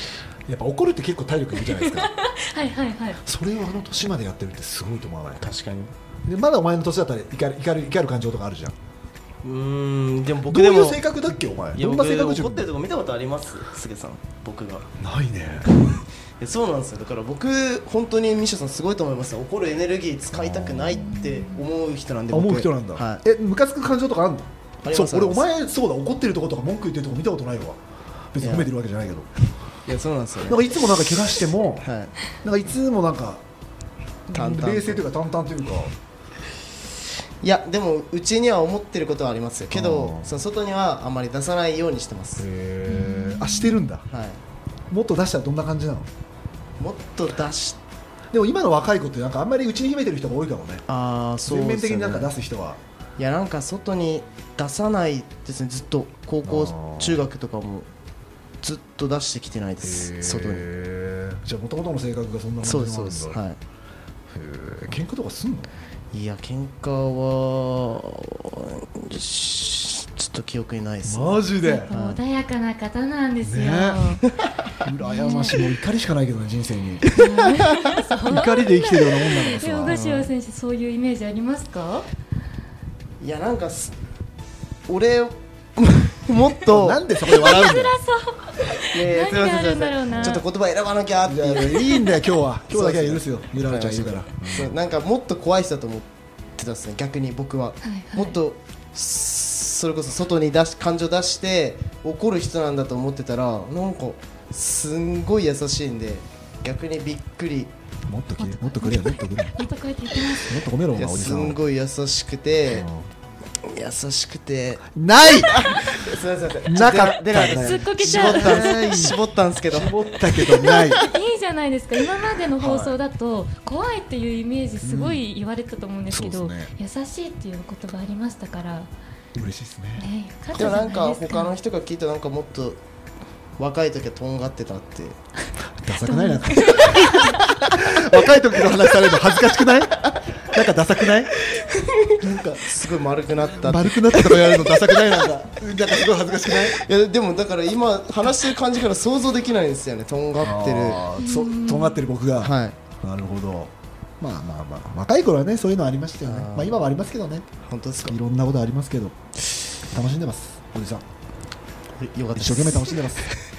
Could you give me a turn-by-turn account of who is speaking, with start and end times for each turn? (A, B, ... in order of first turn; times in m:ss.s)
0:00.4-0:02.1 A
0:01.6-0:03.2 B
0:03.2-0:05.5 A
0:05.4-0:05.9 C
0:06.2-0:08.8 A
0:09.4-0:11.0 C
0:10.4-0:12.7 A
0:11.7-0:14.9 C
0:15.0-0:16.0 A
0:16.4-0:23.2 C
0:20.3-0:21.1 A
0:20.9-0:21.6 B
0:22.3-0:27.8 A
0:24.8-0:25.5 C
0:28.3-0:29.3 A
0:28.4-0:28.7 C
0:29.8-0:31.1 C
0:30.4-0:31.9 A
0:31.8-0:32.1 C
0:32.4-0:33.4 A
0:34.3-0:35.9 A
0:34.3-0:35.0 C
0:37.4-0:42.4 C
0:39.7-0:40.3 A
0:42.4-0:44.1 A
0:42.8-0:43.8 B
0:44.1-0:44.4 C
0:44.9-0:46.1 A
0:46.8-0:47.8 C
0:48.3-0:50.8 A
0:50.9-0:52.3 C
0:51.4-0:52.8 A
0:53.2-0:57.9 C
0:56.4-0:57.2 A
0:58.6-1:00.7 C
0:59.8-1:03.4 A
1:02.6-1:03.6 C
1:04.3-1:05.7 A
1:06.1-1:12.2 C
1:11.0-1:11.9 A
1:11.6-1:14.2 B
1:13.4-1:14.2 A
1:14.8-1:17.4 A
1:15.0-1:15.7 B
1:17.1-1:22.0 B
1:18.2-1:20.0 A
1:19.9-1:20.3 C
1:23.2-1:23.9 C
1:24.9-1:27.0 C
1:26.7-1:28.0 A
1:27.2-1:30.4 B
1:28.8-1:47.7 C
1:30.1-1:30.4 A
1:31.2-1:34.8 A
1:37.8-1:38.4 B
1:48.1-1:49.6 A
1:48.4-1:50.6 B
1:50.4-1:51.6 A
1:50.9-1:52.9 C
1:52.7-1:53.1 A
1:53.6-2:00.8 C
1:54.8-1:56.0 A
1:56.6-1:59.2 A
1:57.3-1:59.0 B
1:59.7-2:01.1 A
2:00.7-2:08.9 B
2:02.6-2:03.0 A
2:04.8-2:05.3 A
2:06.1-2:06.7 A
2:09.3-2:10.8 A
2:10.0-2:11.5 B
2:10.5-2:12.8 C
2:13.6-2:15.2 C
2:15.8-2:21.3 A
2:16.0-2:17.4 B
2:16.8-2:18.7 C
2:21.4-2:25.4 C
2:22.2-2:26.8 A
2:26.4-2:31.1 C
2:30.4-2:37.5 A
2:31.2-2:32.0 B
2:32.4-2:32.8 C
2:36.2-2:36.8 C
2:37.6-2:38.2 C
2:38.0-2:39.2 A
2:39.9-2:41.0 A
2:42.0-2:43.3 C
2:42.3-2:43.3 A